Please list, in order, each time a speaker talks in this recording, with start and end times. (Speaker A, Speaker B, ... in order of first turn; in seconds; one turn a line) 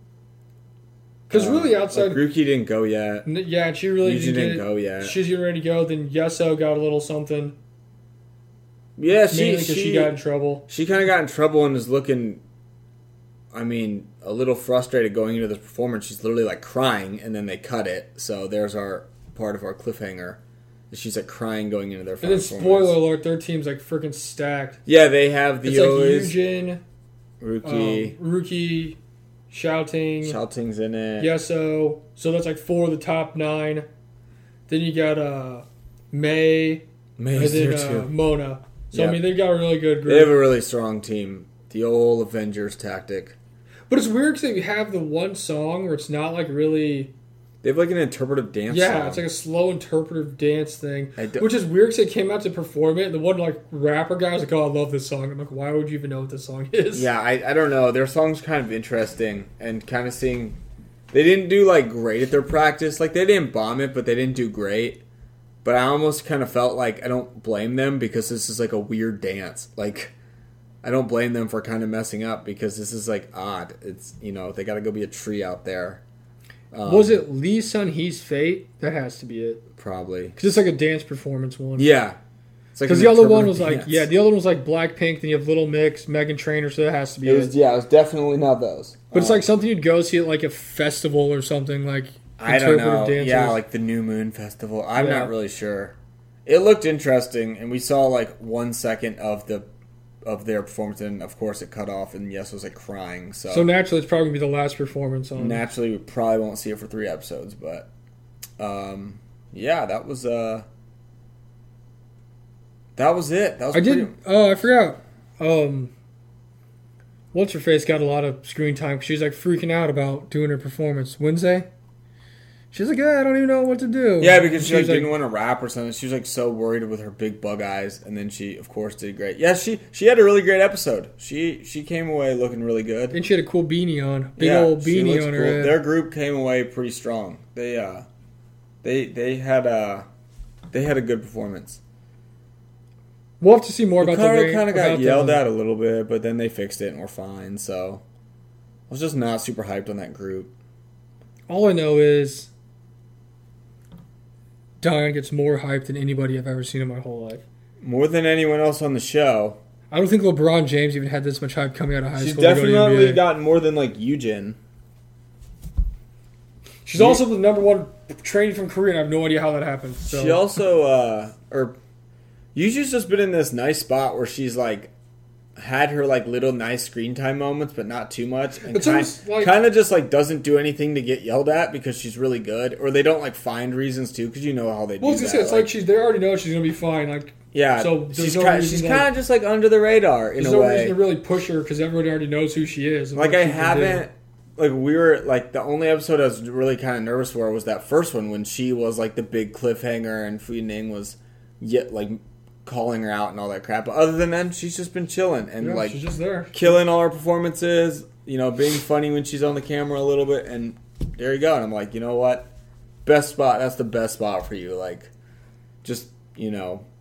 Speaker A: 1.3-2.2
Speaker B: 1.3-3.3
Speaker A: 3.3-7.5
Speaker B: 4.0-5.2
Speaker B: 9.0-10.2
Speaker A: 9.3-10.7
Speaker B: 10.7-12.4
Speaker B: 13.5-20.4
Speaker B: 20.9-23.0
Speaker A: 22.2-24.8
Speaker B: 24.9-26.4
Speaker A: 25.6-26.8
Speaker B: 27.4-28.2
Speaker A: 27.6-29.0
Speaker A: 29.5-30.4
Speaker B: 30.2-31.3
Speaker A: 31.2-33.9
Speaker A: 34.7-40.4
Speaker B: 37.2-38.1
Speaker B: 38.9-39.2
Speaker B: 40.1-43.4
Speaker A: 43.9-47.1
Speaker B: 47.6-49.2
Speaker A: 48.7-57.1
Speaker B: 51.2-51.5
Speaker B: 56.9-60.6
Speaker B: 61.1-65.0
Speaker B: 65.6-70.1
Speaker B: 70.8-76.0
Speaker B: 76.7-77.2
Speaker A: 76.8-79.7
Speaker B: 79.8-80.6
Speaker A: 80.4-81.9
Speaker B: 81.8-82.2
Speaker B: 82.8-84.1
Speaker A: 82.9-87.5
Speaker B: 87.2-89.5
Speaker A: 89.1-93.6
Speaker B: 92.4-96.0
Speaker A: 95.0-95.3
Speaker B: 96.5-99.7
Speaker B: 100.2-103.7
Speaker A: 103.5-105.6
Speaker B: 105.4-107.9
Speaker B: 108.6-110.7
Speaker B: 113.0-114.2
Speaker A: 113.7-115.9
Speaker A: 117.3-121.7
Speaker A: 122.7-125.1
Speaker B: 124.2-133.2
Speaker A: 133.1-135.8
Speaker B: 134.4-138.1
Speaker B: 138.8-140.1
Speaker B: 140.7-141.8
Speaker A: 143.4-145.4
Speaker B: 144.0-148.0
Speaker B: 148.9-150.5
Speaker A: 151.5-152.5
Speaker A: 154.8-157.4
Speaker B: 157.8-159.6
Speaker A: 159.9-163.2
Speaker B: 162.2-164.6
Speaker A: 166.8-170.4
Speaker B: 167.0-167.2
Speaker B: 170.1-171.8
Speaker B: 172.5-174.9
Speaker B: 175.6-185.7
Speaker A: 178.7-179.6
Speaker A: 185.0-189.1
Speaker B: 187.5-191.0
Speaker A: 190.4-194.1
Speaker B: 193.2-206.0
Speaker A: 205.6-206.8
Speaker B: 206.5-212.5
Speaker B: 213.1-215.1
Speaker B: 215.8-216.9